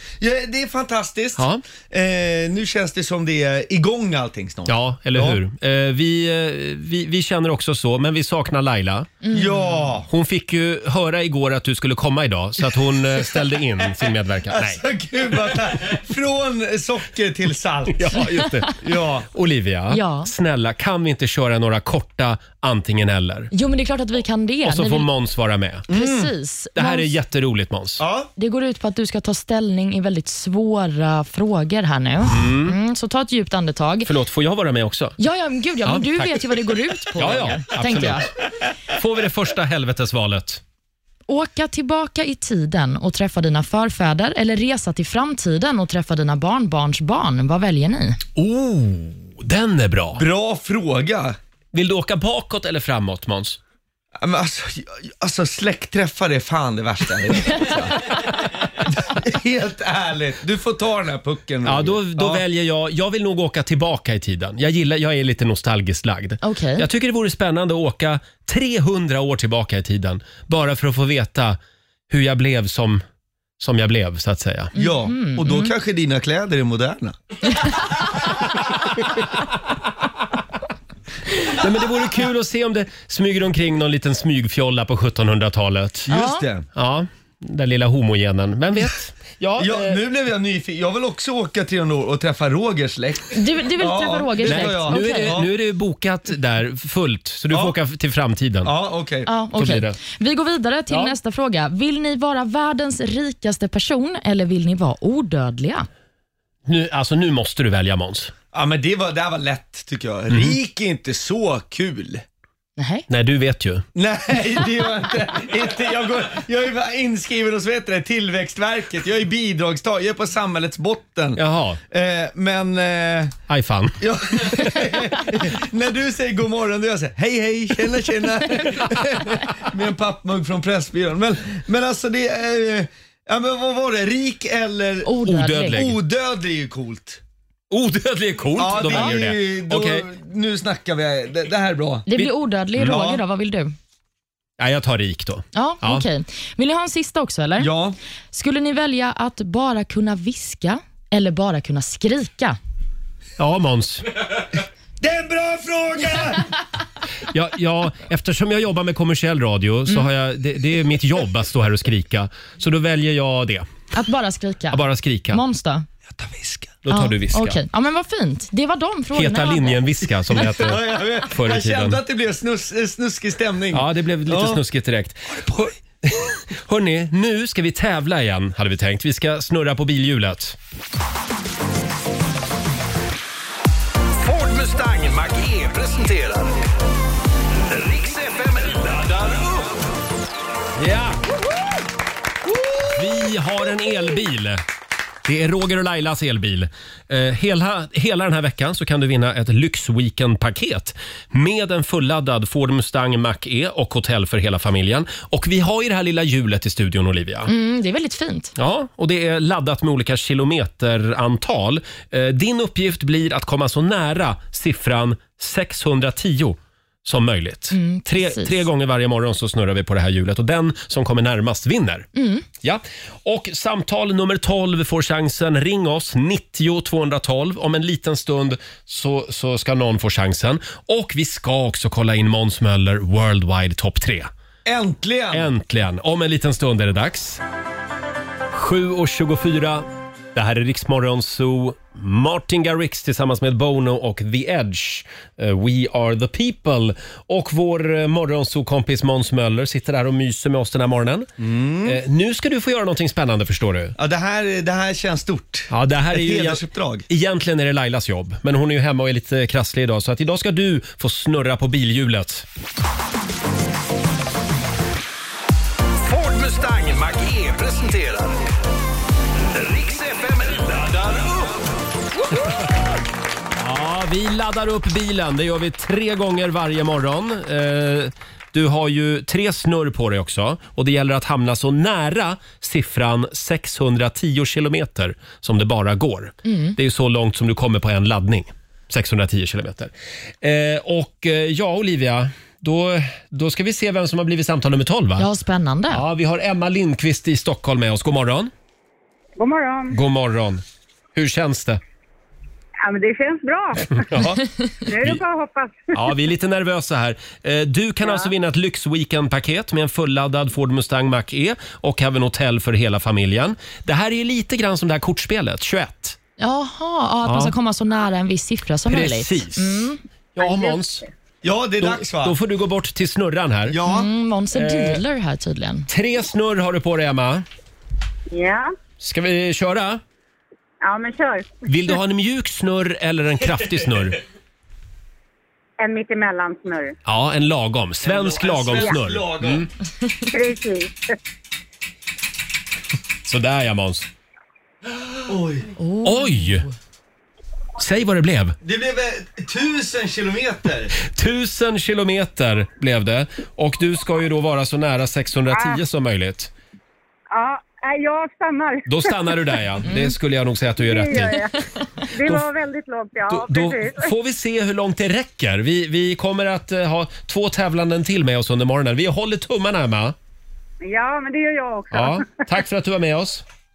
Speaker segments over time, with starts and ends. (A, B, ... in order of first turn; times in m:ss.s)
0:00.2-0:05.4 A
0:01.4-0:01.6 B
0:04.7-0:09.2 B
0:09.2-0:09.8 C
0:09.3-0:10.1 A
0:10.1-0:14.8 B
0:14.5-0:19.3 A
0:17.9-0:18.8 B
0:19.3-0:23.5 B
0:19.9-0:20.3 C
0:23.5-0:25.1 C
0:24.6-0:25.9 B
0:25.9-0:26.3 A
0:25.9-0:27.1 C
0:26.8-0:28.0 B
0:28.0-0:28.3 A
0:28.4-0:34.1 C
0:32.3-0:32.8 B
0:34.0-0:35.2 B
0:35.2-0:38.3 C
0:35.8-0:38.3 B
0:38.9-0:40.6 B
0:41.3-0:48.2 C
0:48.4-0:50.2 B
0:50.2-0:51.4 A
0:51.7-0:53.6 B
0:54.2-1:02.4 A
1:01.6-1:11.6 B
1:06.4-1:06.9 C
1:12.1-1:13.0 B
1:13.6-1:14.7 B
1:14.8-1:15.7 C
1:14.8-1:17.2 A
1:19.0-1:19.2 B
1:21.4-1:26.1 B
1:26.1-1:26.7 A
1:26.1-1:26.4 C
1:26.7-1:30.0 B
1:29.6-1:35.5 A
1:33.3-1:35.4 C
1:34.4-1:38.7 B
1:38.6-1:39.3 A
1:39.3-1:45.9 C
1:39.5-1:40.0 B
1:40.9-1:41.2 B
1:46.7-1:48.3 B
1:48.5-1:52.2 A
1:50.3-1:50.6 B
1:52.8-1:53.1 C
1:53.1-1:53.8 B
1:54.0-2:03.4 A
2:01.4-2:01.8 B
2:03.5-2:04.9 B
2:04.0-2:15.1 A
2:15.0-2:15.8 C
2:15.2-2:16.0 B
2:15.7-2:17.2 A
2:17.7-2:20.1 B
2:18.6-2:22.3 A
2:18.9-2:19.2 C
2:22.1-2:23.7 C
2:22.8-2:23.2 A
2:24.6-2:26.0 B
2:25.5-2:27.7 C
2:27.6-2:28.0 A
2:28.3-2:32.6 C
2:33.4-2:34.1 B
2:35.0-2:36.5 A
2:37.3-2:43.7 B
2:43.9-2:45.9 C
2:44.7-2:45.4 B
2:46.7-2:47.6 B
2:46.9-2:49.8 C
2:49.1-2:52.0 B
2:50.3-2:54.6 A
2:53.7-3:00.6 B
3:04.2-3:06.6 D
3:07.7-3:09.7 D
3:10.8-3:11.2 B
3:12.9-3:14.6 B
3:15.2-3:27.5 B
3:27.5-3:28.5 C
3:28.6-3:42.1 B
3:37.7-3:38.6 C
3:42.2-3:42.4 C
3:42.6-3:54.3 B
3:54.6-3:55.5 A
3:55.3-3:57.4 B
3:58.5-4:11.3 B
4:11.4-4:12.0 A
4:11.8-4:14.0 B
4:14.0-4:17.1 A
4:15.7-4:22.5 B
4:26.0-4:28.5 D
4:29.5-4:31.6 D
4:33.6-4:55.3 B
4:46.4-4:46.8 C
4:55.2-4:56.0 C
4:55.9-4:58.5 B
4:59.4-5:00.0 E
4:59.9-5:00.6 B
5:01.2-5:01.8 B
5:02.8-5:04.1 E
5:03.9-5:05.2 B
5:04.9-5:06.0 E
5:05.9-5:16.2 B
5:16.4-5:20.0 C
5:17.2-5:17.5 B
5:18.9-5:21.0 B
5:20.4-5:20.7 E
5:21.4-5:22.4 A
5:21.8-5:23.8 B
5:23.7-5:24.1 A
5:23.9-5:25.9 C
5:24.5-5:25.0 B
5:25.9-5:27.5 B
5:28.3-5:28.7 E
5:29.0-5:30.0 B
5:30.8-5:31.6 E
5:31.7-5:34.2 B
5:35.8-5:36.9 E
5:37.1-5:39.7 B
5:38.0-5:39.7 A
5:40.3-5:41.0 E
5:43.2-5:44.1 B
5:45.3-5:45.7 A
5:45.8-5:46.7 C
5:46.0-5:46.7 B
5:47.8-5:48.6 B
5:48.6-5:50.9 A
5:51.0-5:56.5 B
5:55.5-5:55.8 E
5:57.3-5:59.5 E
5:58.9-6:01.5 B
5:59.9-6:00.1 C
6:00.8-6:01.5 E
6:02.1-6:04.1 E
6:02.2-6:02.5 B
6:03.3-6:10.2 B
6:10.8-6:12.4 E
6:11.9-6:13.4 B